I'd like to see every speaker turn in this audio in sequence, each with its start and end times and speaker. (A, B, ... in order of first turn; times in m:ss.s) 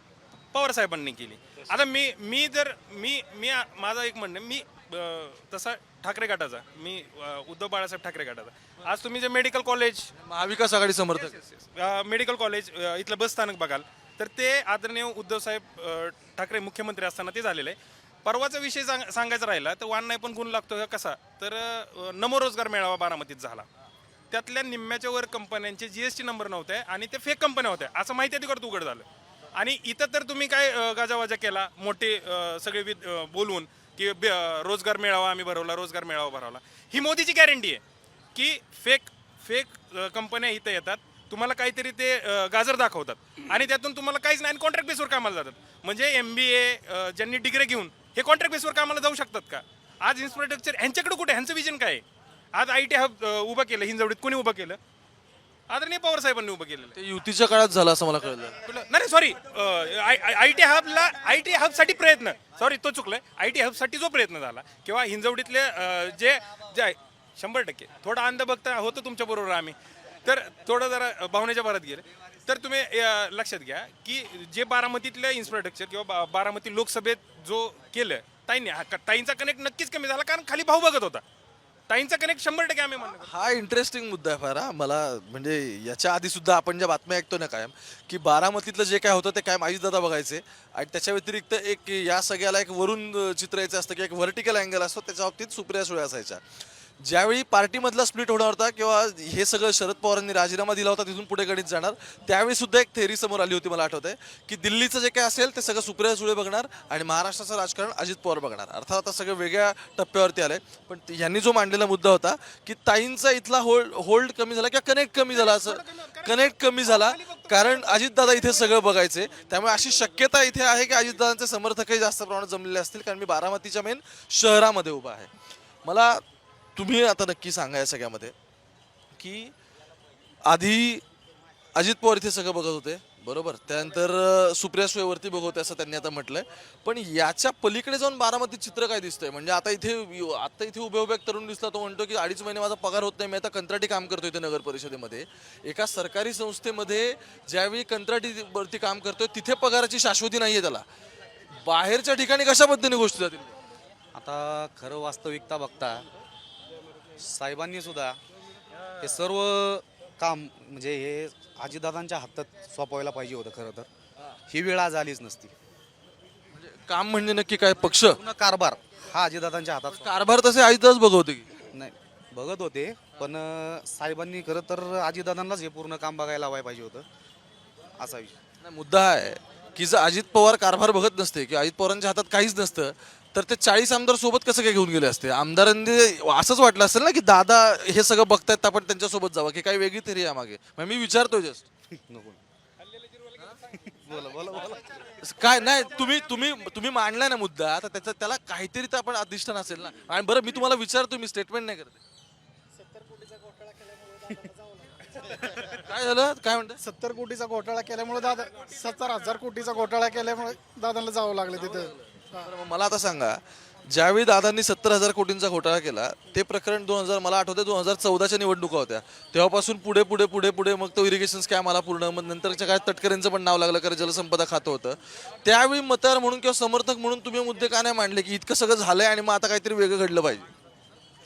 0:00.5-0:10.1 A
0:10.2-0:11.4 B
0:11.2-0:23.6 A
0:24.3-0:37.8 A
0:38.3-0:54.8 A
0:55.7-0:56.9 A
0:56.9-0:58.6 B
0:58.6-1:21.2 A
1:21.9-1:23.3 A
1:23.1-1:36.4 B
1:37.0-2:05.3 B
1:55.3-1:58.6 A
2:05.8-2:06.2 B
2:06.8-2:08.3 B
2:09.2-2:09.5 B
2:10.4-2:11.0 B
2:11.8-2:30.8 B
2:31.5-2:33.5 B
2:34.1-2:36.0 C
2:37.2-2:38.2 C
2:39.0-2:43.9 C
2:44.5-2:45.5 C
2:46.5-2:48.2 B
2:48.1-2:50.1 C
2:49.9-2:51.5 B
2:51.7-2:57.0 C
2:58.0-2:58.4 C
2:58.6-3:11.6 B
3:11.9-3:12.4 C
3:13.7-3:15.0 C
3:15.2-3:22.0 B
3:23.0-3:24.9 D
3:25.6-3:26.8 B
3:26.8-3:32.5 D
3:32.4-3:50.5 B